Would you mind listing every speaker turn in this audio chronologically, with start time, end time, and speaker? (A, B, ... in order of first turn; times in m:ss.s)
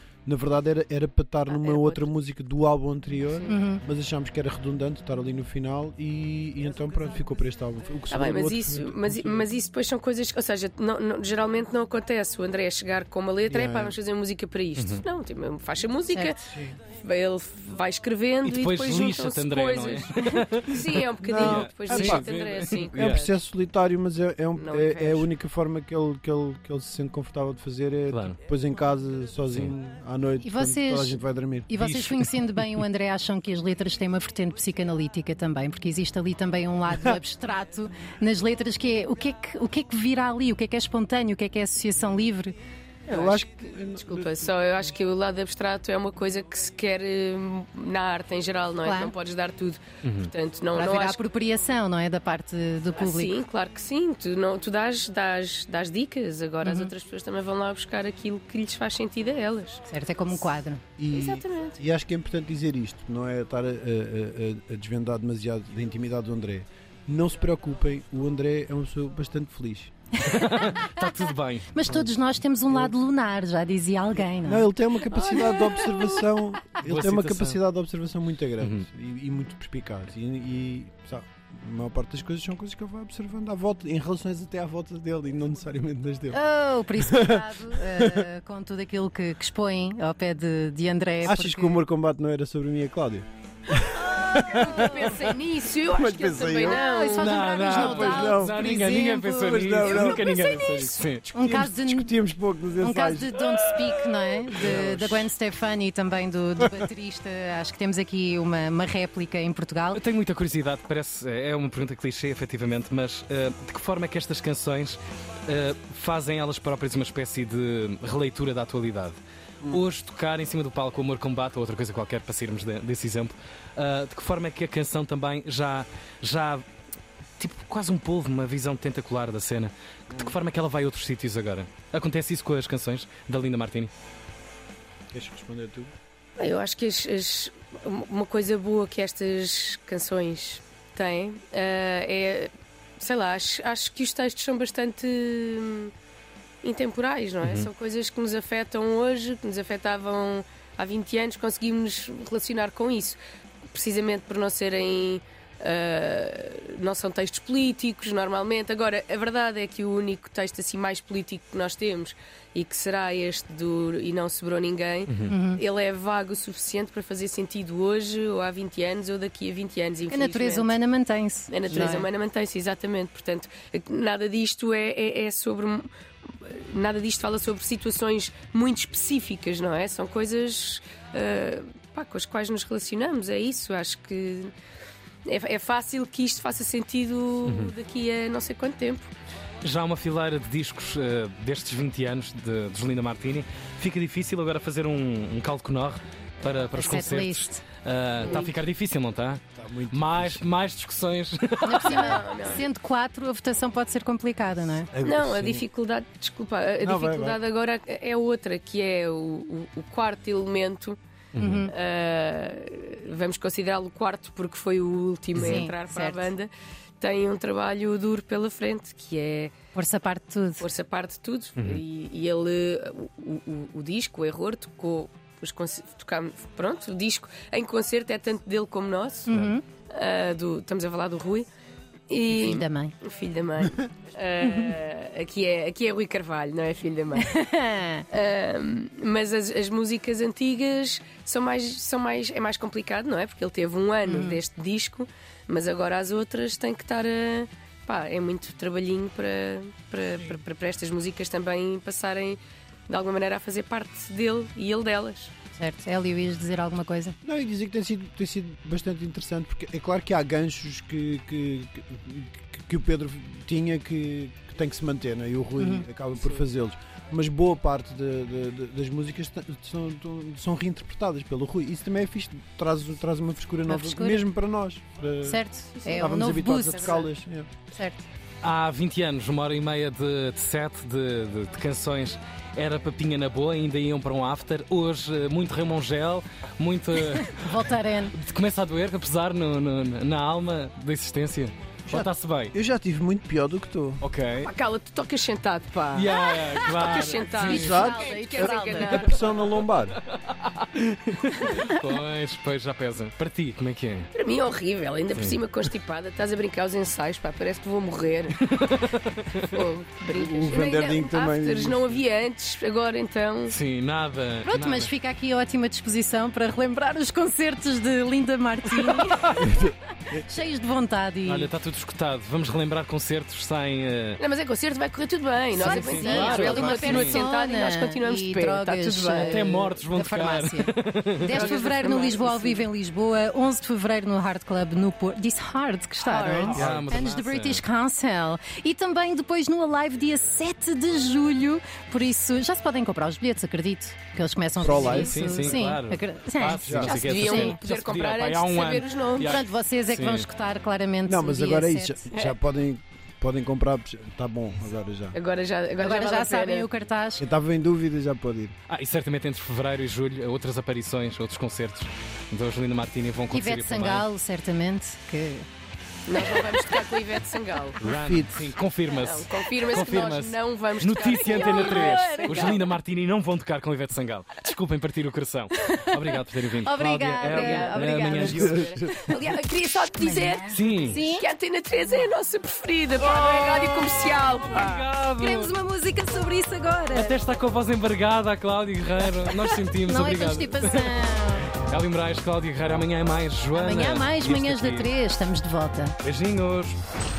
0:00.2-0:09.5 A
0:01.5-0:02.1 B
0:03.5-0:03.8 C
0:08.1-0:16.4 B
0:13.5-0:14.0 A
0:14.8-0:15.0 D
0:16.5-0:16.8 A
0:17.0-0:23.3 B
0:18.4-0:23.2 D
0:21.2-0:22.2 A
0:22.9-0:31.7 A
0:24.6-0:25.3 B
0:28.1-0:28.4 D
0:30.4-0:42.5 C
0:31.8-0:32.3 D
0:43.1-0:43.4 B
0:43.1-0:44.5 A
0:44.0-0:51.2 B
0:48.8-0:49.1 C
0:50.0-0:50.3 D
0:50.7-0:53.4 C
0:53.0-0:59.8 B
0:56.6-0:56.9 C
0:59.9-1:00.8 C
1:01.0-1:09.9 A
1:01.1-1:01.8 B
1:10.2-1:11.7 D
1:10.4-1:14.7 C
1:11.8-1:12.1 A
1:14.4-1:28.3 A
1:15.1-1:16.3 B
1:16.8-1:17.6 D
1:18.6-1:18.8 D
1:26.3-1:31.8 C
1:31.2-1:35.2 A
1:34.0-1:37.3 B
1:34.7-1:35.1 C
1:35.9-1:36.8 A
1:36.6-1:40.6 C
1:37.2-1:41.3 D
1:37.6-1:38.7 A
1:39.4-1:44.0 A
1:40.2-1:41.0 B
1:41.3-1:42.1 C
1:42.8-1:50.0 C
1:44.5-1:45.3 A
1:49.9-2:06.6 D
2:07.4-2:13.9 D
2:15.1-2:15.9 A
2:16.4-2:25.9 B
2:26.6-2:33.2 B
2:27.4-2:27.7 D
2:33.7-2:50.8 B
2:45.1-2:45.3 D
2:45.3-2:45.6 C
2:50.1-2:52.0 C
2:51.5-3:04.5 B
2:51.7-2:52.0 A
3:05.3-3:09.1 B
3:07.4-3:07.8 D
3:09.6-3:22.2 D
3:16.8-3:17.6 C
3:18.2-3:18.6 B
3:19.6-3:20.5 A
3:21.6-3:24.9 C
3:21.8-3:22.6 B
3:24.9-3:25.7 A
3:25.0-3:31.0 B
3:26.8-3:27.4 A
3:31.4-3:31.7 D
3:31.4-3:31.7 C
3:31.7-3:36.5 B
3:35.4-3:36.3 C
3:35.4-3:35.6 D
3:37.0-3:39.6 B
3:39.8-3:40.7 C
3:40.6-3:49.3 B
3:41.6-3:41.8 D
3:49.3-3:49.6 C
3:49.9-3:51.5 B
3:52.1-3:57.3 B
3:52.3-3:53.0 C
3:57.2-3:58.1 C
3:58.1-4:15.3 B
4:04.1-4:04.4 C
4:15.6-4:17.2 C
4:17.2-4:35.4 A
4:25.6-4:25.9 C
4:33.7-4:34.3 C
4:35.2-4:37.1 C
4:35.8-4:37.0 B
4:36.0-4:37.5 A
4:37.7-4:38.1 C
4:38.4-4:52.5 D
4:47.2-4:48.2 C
4:51.9-4:54.0 A
4:54.0-4:54.5 D
4:54.4-4:59.5 B
4:55.9-4:57.8 D
4:56.1-4:59.1 C
4:57.5-5:00.0 A
5:00.1-5:04.1 D
5:04.1-5:08.4 B
5:08.4-5:09.6 D
5:09.4-5:13.6 B
5:10.1-5:12.0 A
5:13.5-5:14.9 D
5:14.5-5:19.6 C
5:19.3-5:20.2 A
5:20.2-5:21.5 C
5:21.2-5:24.2 D
5:24.2-5:29.4 B
5:25.6-5:27.3 D
5:25.6-5:47.6 C
5:29.2-5:31.5 D
5:31.3-5:32.6 B
5:36.0-5:36.7 B
5:36.5-5:37.6 D
5:36.5-5:36.9 A
5:44.6-5:45.5 A
5:44.6-5:50.3 D
5:46.6-5:47.0 A
5:46.8-5:49.4 B
5:49.2-5:52.0 C
5:51.1-5:55.2 A
5:55.1-5:56.7 B
5:55.8-5:57.2 C
5:57.2-5:58.5 A
5:58.7-6:04.1 D
6:03.3-6:05.5 C
6:06.1-6:07.8 B
6:07.8-6:18.7 D
6:07.9-6:08.5 A
6:08.9-6:12.6 B
6:11.2-6:12.6 C
6:16.6-6:18.5 C
6:17.2-6:24.8 B
6:18.1-6:19.2 A
6:20.0-6:21.2 C
6:20.5-6:21.0 D
6:23.2-6:23.7 D
6:23.6-6:24.2 C
6:24.4-6:25.5 D
6:25.2-6:27.2 C
6:26.9-6:31.0 D
6:29.4-6:31.5 C
6:31.6-6:34.9 D
6:33.5-6:36.0 C
6:36.0-6:36.8 D